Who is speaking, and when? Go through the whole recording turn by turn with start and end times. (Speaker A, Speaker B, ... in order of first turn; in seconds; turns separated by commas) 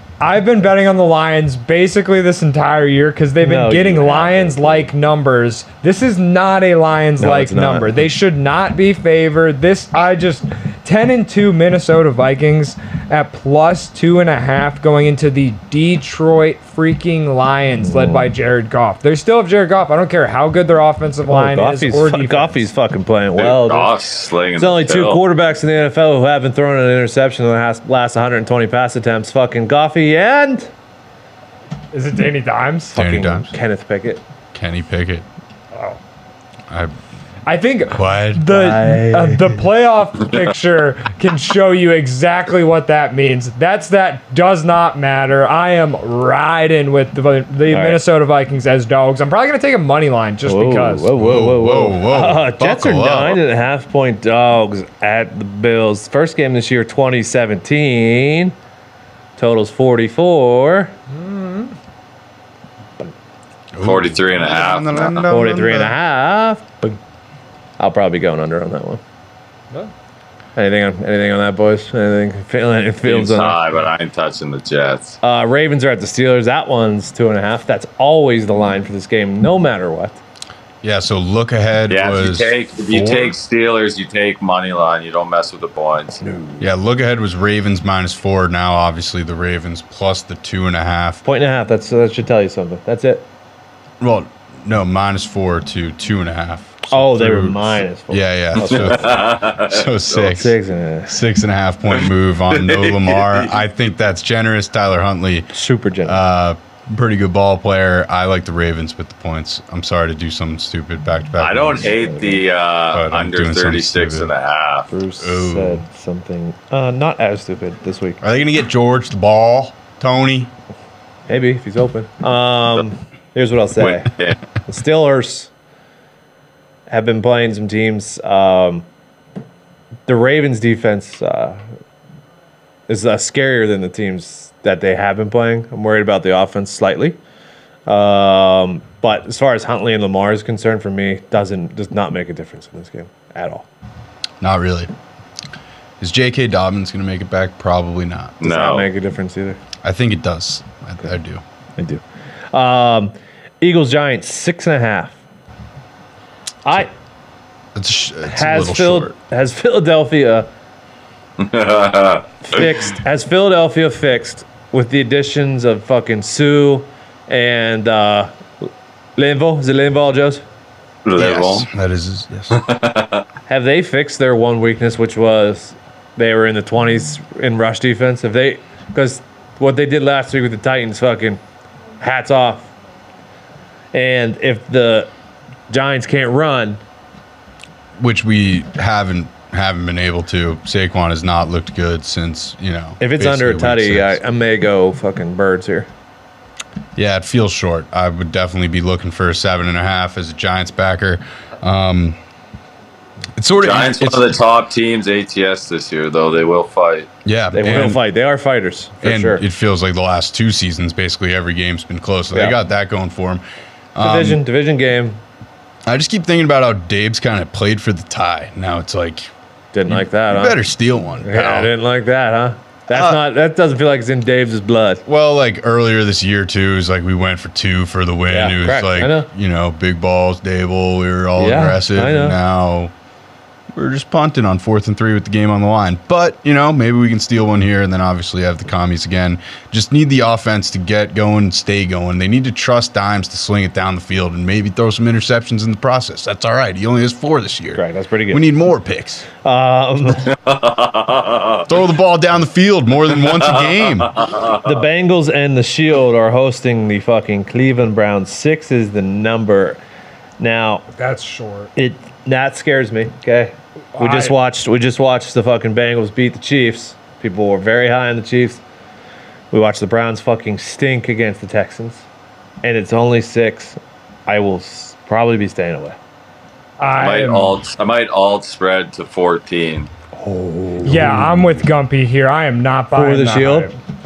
Speaker A: 0.2-22.7, Speaker B: 3.4-4.9, Speaker B: 7.2-8.0, Speaker B: 17.9-18.3, Speaker B: 21.3-23.9, Speaker C: 23.4-25.2, Speaker B: 24.6-30.7, Speaker A: 31.9-33.0, Speaker B: 33.0-34.2, Speaker D: 33.0-33.5, Speaker D: 34.5-35.3, Speaker A: 35.7-36.0, Speaker D: 36.7-36.9, Speaker A: 37.5-51.1, Speaker D: 37.9-38.4, Speaker B: 38.5-39.6, Speaker B: 47.7-48.0, Speaker B: 50.5-58.5, Speaker D: 51.1-53.4, Speaker B: 59.4-60.9, Speaker A: 61.1-61.7, Speaker D: 63.7-66.0, Speaker C: 63.8-65.3, Speaker B: 65.3-66.7, Speaker B: 67.8-69.0, Speaker B: 70.6-73.6, Speaker C: 73.0-75.2, Speaker B: 75.2-80.2, Speaker D: 80.8-83.3, Speaker C: 81.9-86.2, Speaker B: 86.2-86.7, Speaker D: 86.6-91.2, Speaker B: 91.2-93.3, Speaker D: 94.0-105.5, Speaker B: 96.9-99.2, Speaker C: 98.6-100.4, Speaker B: 100.3-101.2, Speaker C: 101.9-103.6, Speaker B: 105.5-106.2, Speaker D: 106.0-112.0, Speaker C: 111.4-114.9, Speaker B: 112.0-112.4, Speaker D: 112.9-114.3, Speaker B: 114.9-118.2, Speaker D: 115.2-115.8, Speaker D: 118.2-120.5, Speaker B: 121.3-124.1, Speaker C: 123.8-124.4, Speaker B: 124.7-125.5, Speaker B: 126.9-128.9, Speaker B: 130.1-131.6, Speaker B: 132.9-137.2, Speaker B: 137.9-143.7, Speaker D: 144.4-144.9, Speaker D: 146.0-148.4, Speaker C: 148.4-148.9, Speaker B: 148.4-149.6, Speaker D: 149.8-151.4, Speaker B: 151.8-155.2, Speaker B: 156.7-156.9, Speaker D: 157.8-159.1, Speaker B: 158.3-160.5, Speaker C: 161.4-162.3, Speaker B: 162.4-170.4, Speaker C: 171.1-171.7, Speaker D: 171.2-172.6, Speaker C: 172.5-173.2, Speaker B: 173.5-181.4, Speaker B: 182.0-182.7, Speaker B: 183.9-185.1, Speaker B: 185.7-186.8, Speaker D: 188.0-194.2, Speaker B: 193.0-195.9, Speaker D: 197.0-202.2, Speaker D: 203.4-204.3, Speaker C: 203.6-207.1, Speaker D: 207.2-208.0, Speaker B: 207.5-209.4, Speaker D: 209.0-213.4, Speaker D: 213.9-214.4, Speaker B: 214.0-215.2, Speaker D: 215.9-219.3, Speaker B: 219.7-220.6, Speaker D: 219.9-221.7, Speaker B: 221.2-225.0, Speaker D: 222.9-223.2, Speaker D: 225.1-232.9, Speaker B: 228.3-229.3, Speaker B: 231.4-232.4, Speaker D: 233.7-249.3, Speaker B: 247.7-248.5, Speaker B: 249.4-250.3, Speaker C: 250.5-251.7, Speaker D: 251.7-254.3, Speaker C: 253.5-254.6, Speaker B: 254.6-259.8, Speaker B: 260.4-260.9, Speaker A: 261.0-261.7, Speaker B: 261.8-268.6, Speaker A: 263.9-264.4, Speaker B: 269.5-272.1, Speaker B: 272.6-276.0, Speaker A: 276.8-277.6, Speaker C: 277.0-279.9, Speaker B: 280.1-281.4, Speaker A: 280.8-283.8, Speaker B: 282.9-283.7